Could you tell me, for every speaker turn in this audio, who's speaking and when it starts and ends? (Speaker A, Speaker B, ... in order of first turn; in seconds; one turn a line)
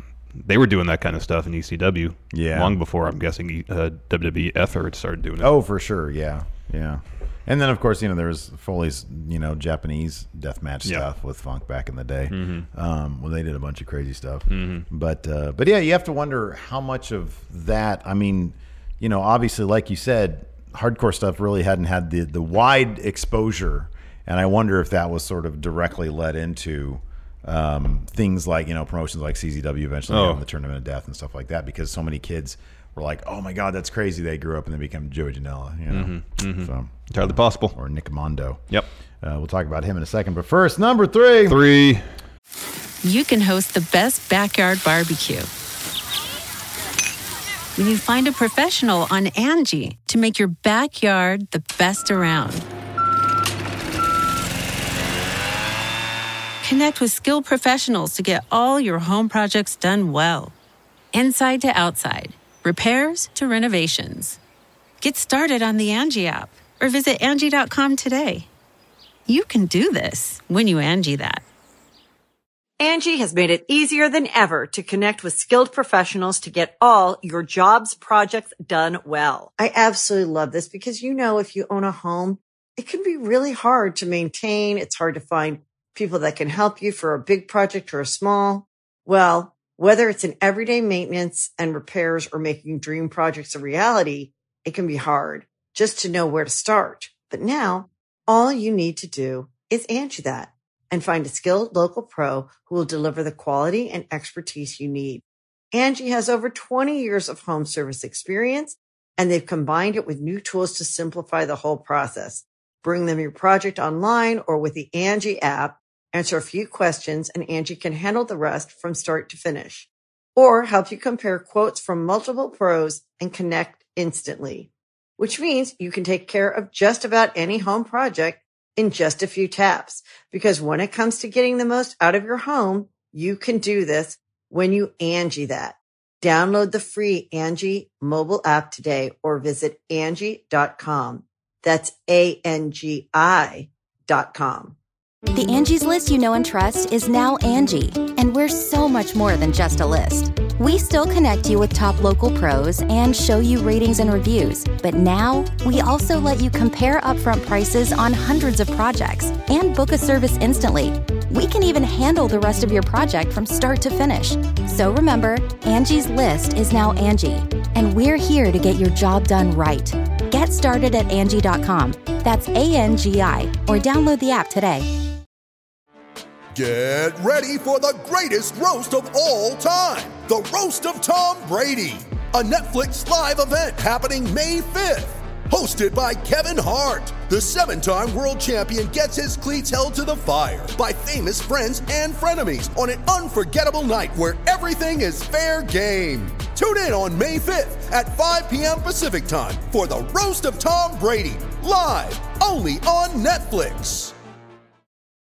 Speaker A: 0.3-5.5
Speaker B: 2.3-2.8
Speaker B: 5.4-37.1
Speaker A: 12.3-12.7
Speaker A: 14.5-14.8
Speaker A: 30.1-30.4
Speaker A: 35.9-37.7
Speaker B: 37.7-38.6
Speaker B: 39.2-41.6
Speaker A: 41.5-42.0
Speaker C: 43.0-45.5
Speaker C: 47.8-52.6
Speaker C: 56.6-60.5
Speaker C: 61.1-64.4
Speaker C: 65.0-68.5
Speaker C: 69.3-71.4
Speaker D: 72.8-144.7
Speaker E: 145.3-174.9
Speaker F: 176.5-204.1